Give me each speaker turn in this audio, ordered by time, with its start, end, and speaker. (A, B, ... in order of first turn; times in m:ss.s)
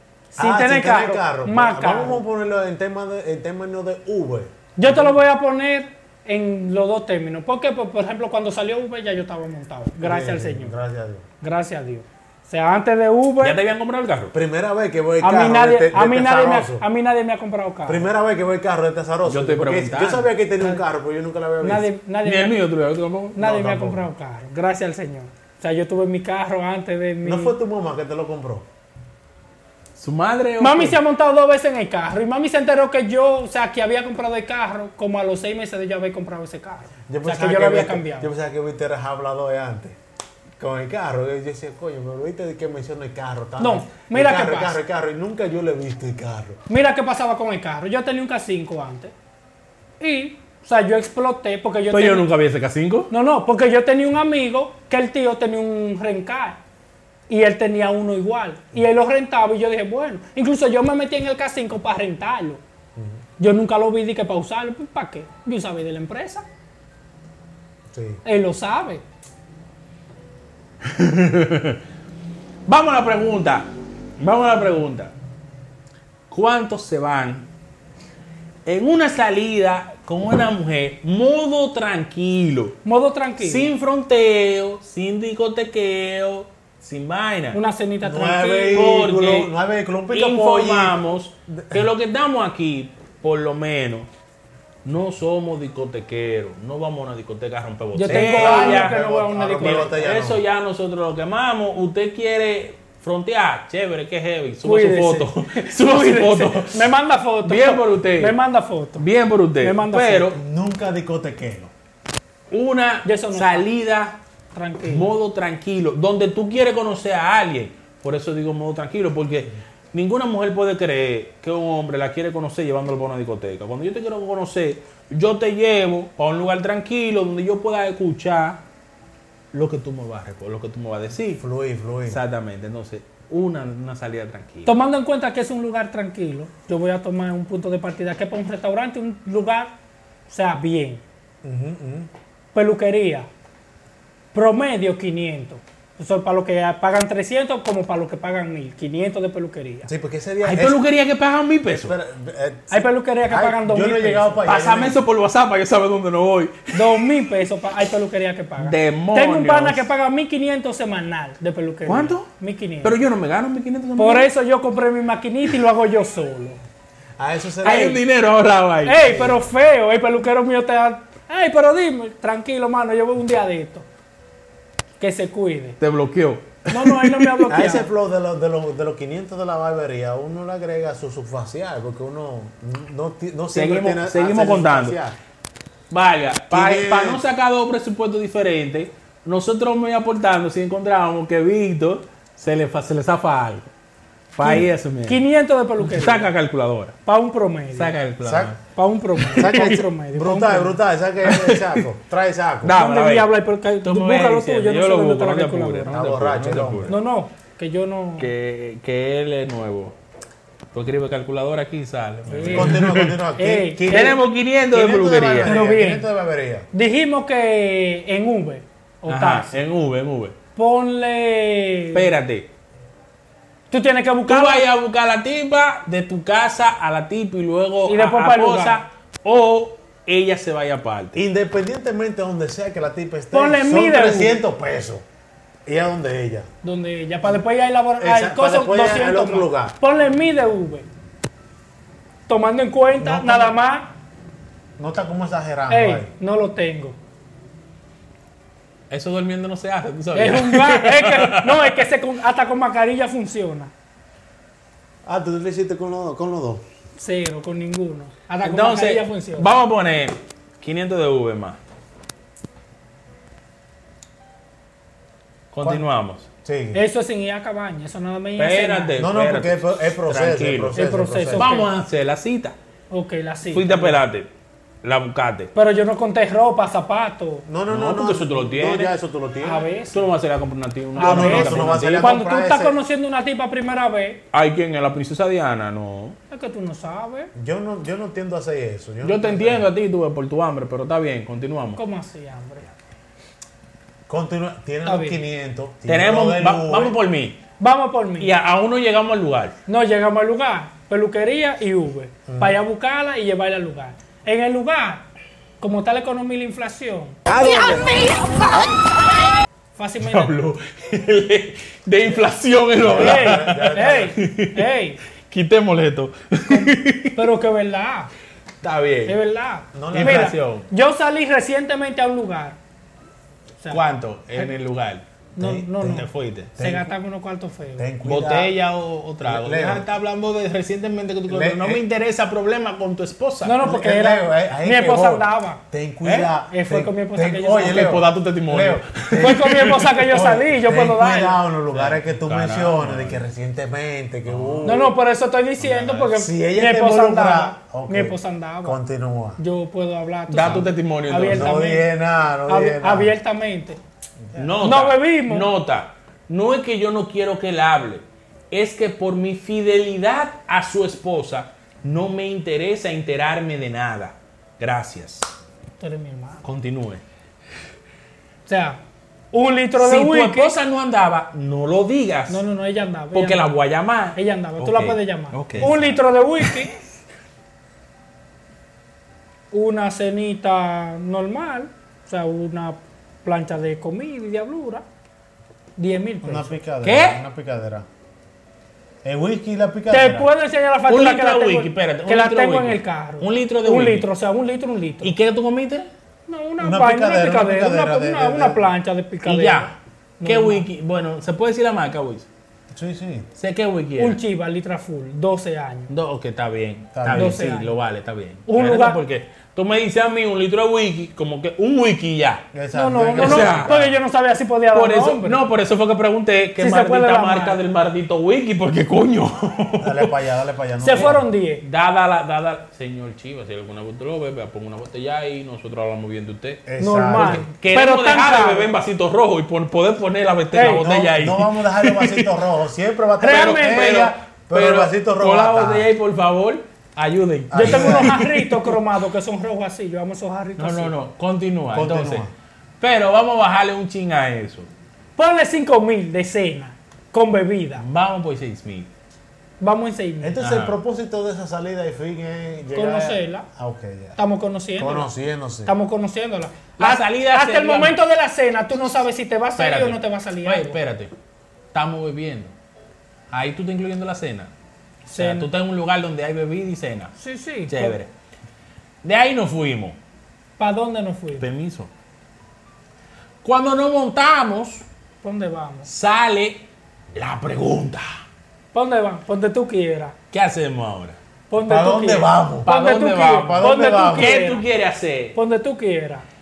0:00.3-0:02.2 A
0:00.4-0:05.0 B
0:04.8-0:10.7 A
0:10.0-0:11.2 B
0:11.4-0:13.6 A
0:13.4-0:14.3 C
0:14.3-0:16.8 B
0:15.2-0:18.0 A
0:17.9-0:21.9 B
0:19.2-0:20.3 C
0:21.6-0:22.6 A
0:22.2-0:23.4 C
0:23.3-0:27.6 A
0:23.4-0:24.1 B
0:27.2-0:28.6 B
0:30.0-0:31.0 C
0:30.6-0:38.3 A
0:37.1-0:40.0 B
0:40.6-0:46.6 B
0:43.6-0:44.8 A
0:46.7-0:49.1 A
0:50.0-0:52.2 A
0:51.9-0:53.1 C
0:53.1-0:56.6 A
0:57.3-1:02.6 A
1:03.0-1:03.2 B
1:03.4-1:06.4 A
1:07.9-1:08.2 B
1:08.2-1:09.0 A
1:10.8-1:11.8 C
1:12.6-1:15.1 C
1:16.3-1:17.5 C
1:18.6-1:22.8 C
1:22.8-1:23.7 A
1:23.4-1:27.6 C
1:27.5-1:28.8 A
1:28.0-1:31.0 B
1:28.7-1:29.5 C
1:30.1-1:34.1 C
1:31.5-1:31.9 B
1:34.8-1:39.0 C
1:37.9-1:40.0 A
1:38.0-1:40.4 B
1:39.6-1:46.9 C
1:44.6-1:49.0 A
1:47.4-1:48.4 C
1:49.0-1:50.4 C
1:49.6-1:50.3 A
1:50.3-1:51.7 B
1:52.5-1:54.2 C
1:53.0-1:53.7 A
1:54.5-1:55.1 A
1:54.8-2:08.6 C
2:09.5-2:11.4 C
2:11.4-2:12.2 B
2:12.1-2:14.7 C
2:14.6-2:19.7 A
2:20.3-2:21.0 A
2:21.4-2:22.1 B
2:22.5-2:23.3 A
2:24.3-2:29.9 A
2:29.8-2:30.8 B
2:30.4-2:32.0 C
2:31.8-2:35.0 B
2:32.7-2:34.4 A
2:34.4-2:37.0 C
2:36.7-2:43.0 A
2:38.6-2:39.9 C
2:41.8-2:42.3 C
2:42.8-2:44.3 C
2:44.0-2:46.6 A
2:47.2-2:48.0 B
2:47.6-2:49.0 C
2:48.8-2:53.9 A
2:49.0-2:49.4 B
2:55.0-2:55.8 A
2:55.8-2:57.6 C
2:56.7-2:57.9 A
2:57.5-3:05.2 B
3:03.5-3:05.0 C
3:05.9-3:13.7 C
3:06.5-3:07.2 B
3:14.3-3:15.2 C
3:14.4-3:16.3 A
3:15.8-3:17.0 C
3:17.0-3:17.9 A
3:17.7-3:18.6 C
3:18.2-3:18.6 B
3:18.7-3:20.8 A
3:19.2-3:19.8 C
3:19.4-3:22.8 B
3:21.2-3:21.8 C
3:22.6-3:26.9 C
3:22.7-3:25.9 A
3:25.9-3:27.0 B
3:26.9-3:28.3 A
3:28.2-3:30.0 C
3:30.7-3:33.2 C
3:32.3-3:34.2 A
3:32.4-3:36.7 B
3:33.8-3:35.6 C
3:35.4-3:36.0 A
3:36.7-3:39.6 A
3:39.1-3:40.4 C
3:40.6-3:42.1 A
3:41.9-3:42.5 C
3:43.7-3:44.6 A
3:44.3-3:51.2 C
3:47.8-3:48.8 A
3:51.1-3:55.0 B
3:53.3-3:54.4 A
3:55.6-3:56.5 B
3:56.6-4:00.9 A
3:58.0-3:59.7 B
4:02.3-4:03.9 A
4:03.0-4:03.6 B
4:04.8-4:06.1 B
4:05.7-4:07.0 A
4:08.9-4:11.8 C
4:10.1-4:13.7 A
4:15.0-4:16.6 B
4:17.0-4:19.5 A
4:18.4-4:21.6 C
4:25.5-4:26.3 C
4:26.4-4:26.8 B
4:26.7-4:29.0 A
4:28.4-4:32.6 C
4:29.0-4:31.6 B
4:30.8-4:31.7 A
4:32.9-4:34.0 A
4:33.5-4:34.3 C
4:34.8-4:35.5 C
4:35.5-4:37.4 A
4:37.5-4:39.7 B
4:37.7-4:39.0 C
4:39.4-4:40.0 A
4:39.9-4:42.1 C
4:40.9-4:44.2 A
4:41.0-4:42.8 B
4:44.3-4:46.2 C
4:46.3-4:47.3 A
4:47.3-4:49.7 B
4:49.0-4:51.8 C
4:51.8-4:52.7 A
4:54.1-4:57.0 B
4:54.8-4:55.2 A
4:55.9-4:57.4 C
4:57.6-4:58.3 A
4:58.2-4:59.6 C
4:59.7-5:05.0 A
5:02.3-5:02.6 B
5:05.6-5:07.2 A
5:07.3-5:08.4 C
5:07.3-5:08.0 B
5:09.8-5:10.4 A
5:10.0-5:14.7 C
5:12.8-5:14.1 B
5:12.9-5:15.0 A
5:15.3-5:17.2 C
5:17.1-5:18.1 A
5:18.6-5:19.2 C
5:19.1-5:22.6 A
5:19.7-5:20.3 B
5:19.9-5:20.7 C
5:23.7-5:25.0 C
5:25.3-5:27.9 A
5:25.4-5:26.9 B
5:25.8-5:26.5 C
5:27.8-5:28.5 B
5:28.0-5:33.6 C
5:29.2-5:29.8 B
5:31.3-5:31.8 B
5:33.4-5:35.6 A
5:33.6-5:45.0 B
5:36.0-5:36.3 C
5:36.4-5:37.9 A
5:37.6-5:40.0 C
5:39.2-5:41.4 A
5:41.7-5:43.2 C
5:44.2-5:44.9 C
5:44.6-5:48.8 A
5:45.6-5:46.0 C
5:45.9-5:49.4 B
5:49.4-5:51.9 A
5:50.3-5:51.5 C
5:51.3-5:53.1 B
5:52.5-5:53.8 A
5:54.2-5:54.6 B
5:54.4-6:05.3 C
5:54.6-5:55.5 A
6:05.8-6:06.4 A
6:06.4-6:07.0 C
6:08.4-6:08.8 A
6:09.3-6:10.5 A
6:09.8-6:12.4 C
6:12.3-6:13.4 A
6:13.1-6:16.6 C
6:14.1-6:16.8 A
6:15.5-6:15.8 B
6:19.5-6:24.8 A
6:25.8-6:26.6 A
6:26.2-6:27.9 B
6:26.8-6:27.2 C
6:29.0-6:30.3 B
6:29.9-6:35.1 A
6:30.9-6:34.1 C
6:35.0-6:35.9 C
6:36.3-6:40.6 A
6:36.6-6:38.7 B
6:39.2-6:42.3 C
6:42.7-6:43.3 B
6:43.4-6:44.2 C
6:44.0-6:45.9 A
6:45.9-6:52.4 C
6:46.9-6:47.4 B
6:47.1-6:47.8 A
6:48.5-6:49.0 A
6:52.5-6:53.9 B
6:52.7-6:55.4 A
6:53.2-6:53.7 C
6:54.7-7:00.1 C
6:56.6-6:57.6 A
6:59.8-7:01.2 B
7:00.8-7:01.6 A
7:00.9-7:06.6 C
7:06.7-7:07.4 B
7:06.8-7:08.7 A
7:07.1-7:12.3 C
7:10.5-7:10.9 A
7:10.6-7:15.9 B
7:13.2-7:14.0 A
7:13.2-7:18.7 C
7:17.5-7:18.2 B
7:17.5-7:20.9 A
7:20.6-7:22.3 C
7:21.7-7:22.3 B
7:22.8-7:24.7 C
7:25.2-7:27.8 A
7:27.8-7:28.9 C
7:29.6-7:30.4 A
7:30.2-7:34.2 B
7:30.4-7:30.7 C
7:32.7-7:33.4 A
7:34.2-7:35.1 A
7:34.8-7:35.7 B
7:35.6-7:40.8 A
7:36.8-7:38.0 C
7:39.6-7:41.1 C
7:41.7-7:42.5 C
7:43.3-7:44.5 C
7:45.0-7:45.5 A
7:45.2-7:48.1 C
7:47.2-7:47.9 A
7:49.0-7:50.0 C
7:50.6-7:51.4 A
7:51.4-7:51.9 C
7:53.4-7:54.8 C
7:55.2-7:55.9 A
7:55.8-7:56.6 C
7:57.1-7:58.2 C
7:58.7-8:00.2 A
8:00.3-8:01.2 C
8:01.5-8:04.6 A
8:01.6-8:02.7 B
8:02.6-8:05.4 C
8:03.4-8:04.4 B
8:05.3-8:06.2 A